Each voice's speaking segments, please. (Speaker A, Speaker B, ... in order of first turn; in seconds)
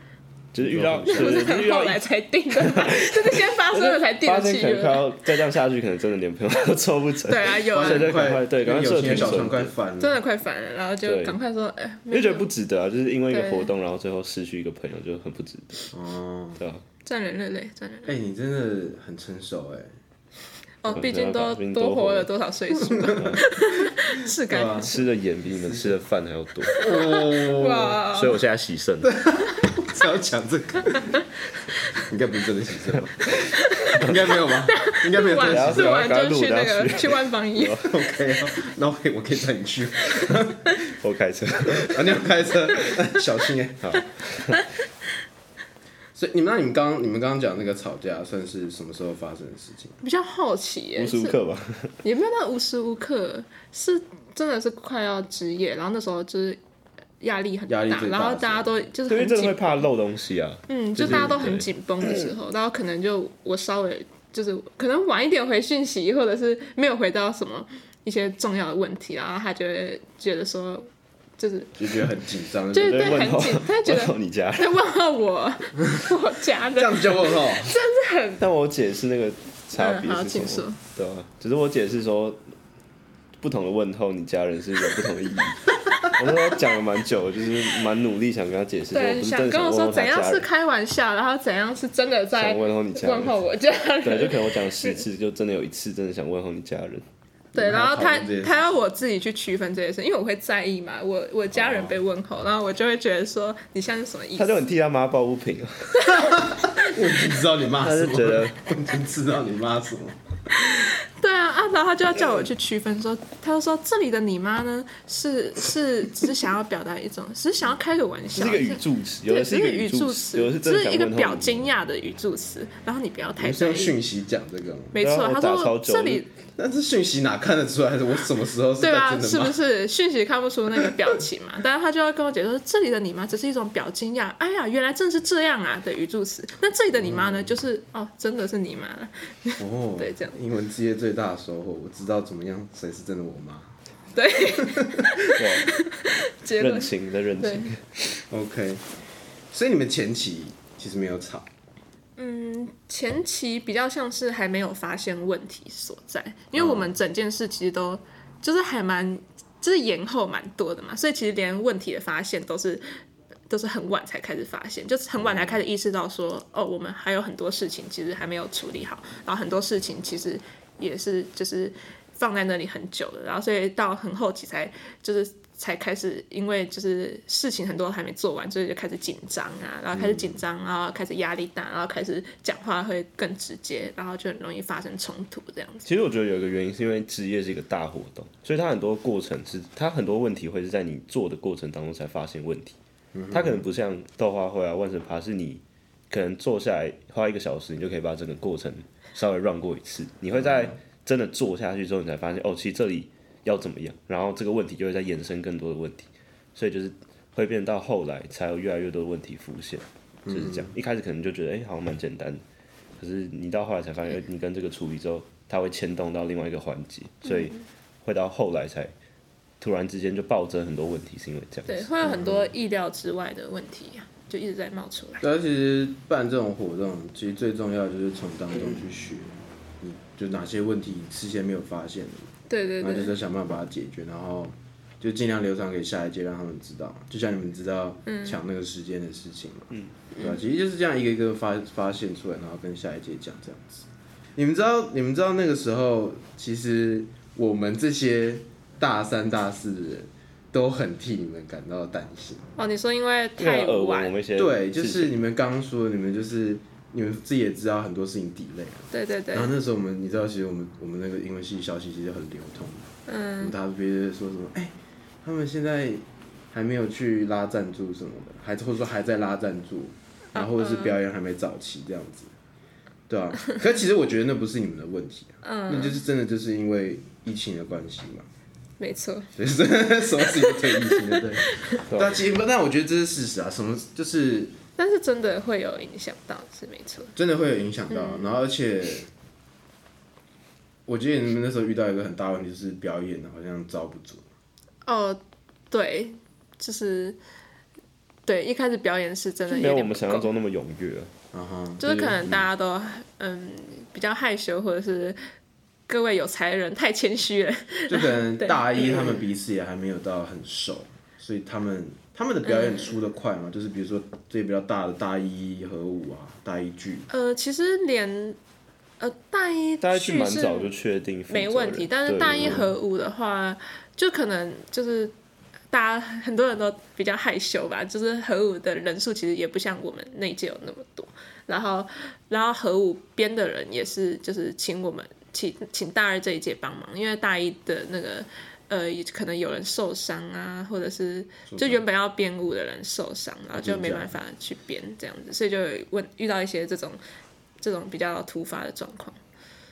Speaker A: 0.5-9.7, 11.0-11.4, 12.1-15.9, 16.6-16.8, 20.9-22.3, 23.2-23.4, 24.8-26.8, 28.1-29.1, 35.4-38.0, 40.9-42.2, 43.8-44.6, 51.0-52.0, 59.1-62.3, 72.8-74.8, 78.4-82.4, 83.4-90.5, 92.3-93.4, 94.0-97.0, 104.4-106.1, 107.8-108.6, 118.3-121.7, 125.0-126.3, 145.3-145.7, 146.6-148.0, 185.8-192.8, 193.3-212.4, 213.0-218.9, 219.6-221.9, 253.4-255.1, 281.9-282.2, 299.5-301.1, 319.8-322.7
Speaker B: 0.6-1.4, 7.7-10.2, 15.9-16.6, 18.1-19.9, 22.9-23.4, 24.5-24.9, 25.5-25.9, 26.8-28.1, 29.0-31.2, 31.9-36.0, 37.8-40.8, 41.8-44.0, 46.1-50.0, 57.7-58.8, 71.8-73.3, 76.8-77.7, 97.5-98.7, 101.5-101.9, 106.1-110.2, 123.4-125.0, 126.6-129.6, 136.9-137.5, 139.6-143.7, 144.6-145.1, 148.3-148.8, 149.5-151.5, 156.6-157.0, 165.2-165.6, 179.9-180.4, 193.1-193.7, 200.3-200.8, 210.3-210.7, 222.0-222.5, 225.2-252.5, 254.4-272.3, 273.1-278.3, 279.4-284.6, 287.2-289.1, 290.9-294.2, 301.3-302.5, 307.9-317.1, 341.5-341.8, 343.6-344.1
Speaker C: 1.1-5.2, 7.3-8.3, 10.0-12.5, 13.3-13.7, 17.1-18.1, 20.8-25.0, 26.7-28.4, 33.5-34.1, 34.7-37.8, 50.0-51.4, 52.0-56.6, 57.2-59.9, 60.7-71.8, 72.7-78.5, 79.8-80.8, 88.9-95.0, 97.5-104.6, 106.0-106.4, 110.6-124.0, 124.9-126.3, 128.8-140.4, 144.1-147.7, 152.2-162.8, 163.5-185.9, 217.2-217.6, 221.7-225.2, 232.5-233.1, 238.1-238.4, 252.6-254.1, 258.9-259.5, 263.1-263.6, 270.3-271.0, 275.4-276.0, 278.8-279.3, 280.2-281.8, 284.8-287.1, 287.9-288.4, 294.9-295.2, 295.7-297.2, 298.3-300.3, 301.8-305.2, 305.9-309.2, 312.4-312.9, 317.1-318.4, 319.0-320.7, 321.3-325.1, 325.7-347.0, 347.6-349.2